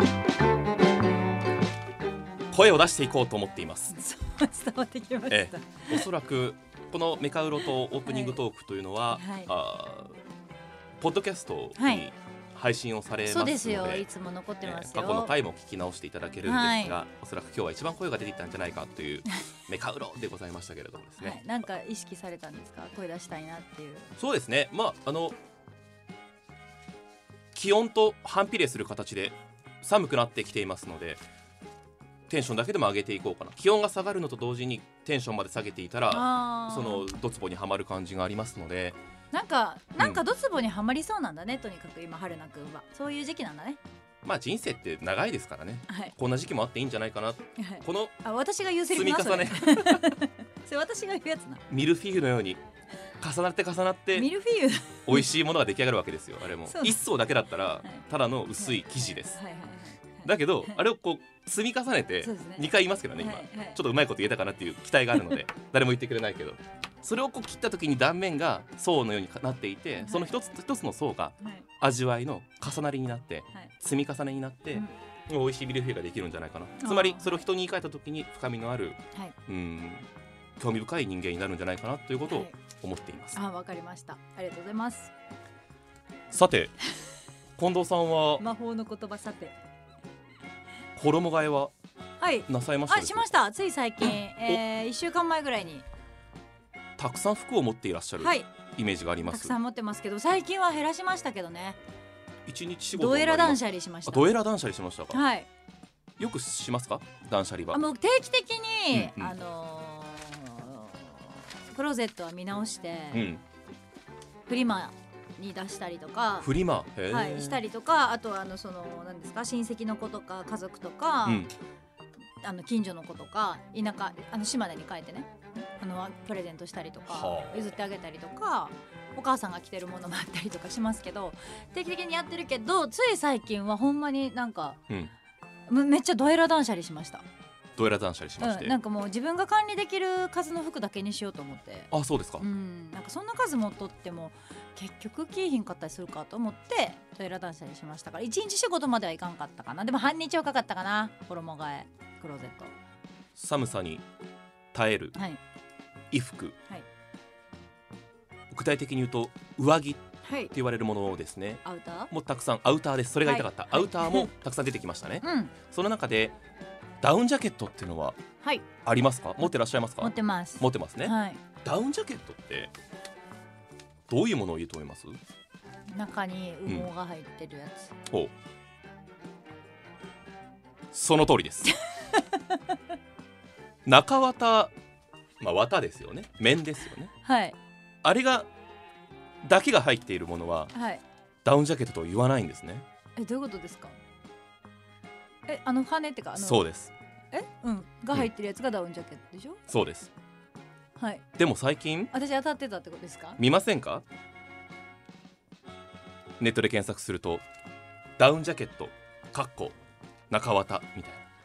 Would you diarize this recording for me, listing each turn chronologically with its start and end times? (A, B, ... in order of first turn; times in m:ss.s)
0:02.5-0:04.0 A
0:03.9-0:06.1 B
0:05.3-0:10.2 A
0:08.0-0:08.4 B
0:09.2-0:09.5 B
0:11.0-0:14.1 A
0:11.8-0:12.1 B
0:13.2-0:15.4 B
0:14.6-0:21.4 A
0:16.4-0:17.0 B
0:21.2-0:24.1 B
0:24.2-0:25.4 A
0:27.5-0:31.2 A
0:32.3-0:39.0 A
0:36.1-0:37.1 B
0:39.3-0:43.8 B
0:44.2-0:48.2 A
0:45.9-0:46.1 B
0:47.6-0:51.6 B
0:48.9-0:50.1 A
0:51.7-0:52.6 A
0:53.2-0:54.3 A
0:54.1-0:55.3 B
0:55.1-0:59.4 A
0:56.6-0:57.0 B
0:58.6-1:00.8 B
1:00.2-1:20.1 A
1:02.2-1:03.8 B
1:10.0-1:10.4 B
1:16.8-1:17.4 B
1:20.6-1:23.4 A
1:22.3-1:22.6 B
1:23.3-1:25.1 B
1:26.3-1:26.7 A
1:27.6-1:28.4 A
1:28.4-1:29.6 B
1:31.0-1:31.7 A
1:32.2-1:35.8 B
1:32.5-1:33.3 A
1:34.0-1:34.6 A
1:37.0-1:39.6 A
1:38.2-1:38.5 B
1:39.2-1:41.8 B
1:42.5-1:45.2 A
1:42.9-1:44.3 B
1:45.1-1:45.5 B
1:46.2-1:47.8 A
1:47.7-1:53.3 B
1:48.9-1:49.3 A
1:53.1-1:53.4 A
1:54.5-1:56.5 B
1:56.4-1:57.6 A
1:57.1-2:01.5 B
2:01.2-2:01.5 A
2:02.4-2:14.8 B
2:07.1-2:07.7 A
2:15.7-2:17.2 B
2:17.8-2:18.8 A
2:18.4-2:32.7 B
2:21.9-2:22.5 A
2:33.4-2:34.0 A
2:34.7-2:35.2 A
2:35.1-2:35.4 B
2:36.1-2:36.6 A
2:38.5-2:46.4 A
2:40.2-2:40.5 B
2:41.6-2:42.1 B
2:43.2-2:44.3 B
2:45.2-2:45.5 B
2:47.0-2:48.2 A
2:48.4-2:48.7 B
2:48.8-2:52.7 A
2:50.0-2:51.4 B
2:54.1-2:55.2 A
2:55.9-2:57.9 B
2:58.1-2:58.3 A
3:00.9-3:01.8 A
3:02.0-3:02.8 B
3:03.8-3:04.7 A
3:05.4-3:07.1 A
3:07.2-3:07.6 B
3:08.0-3:08.5 A
3:09.4-3:10.7 A
3:10.7-3:11.0 B
3:11.4-3:12.8 A
3:13.2-3:14.0 B
3:15.5-3:16.6 B
3:16.3-3:16.9 A
3:17.3-3:19.6 B
3:19.7-3:20.1 A
3:21.0-3:21.2 B
3:21.4-3:22.1 A
3:22.1-3:23.4 B
3:23.4-3:24.0 A
3:26.4-3:27.4 A
3:28.2-3:29.8 A
3:30.3-3:31.2 A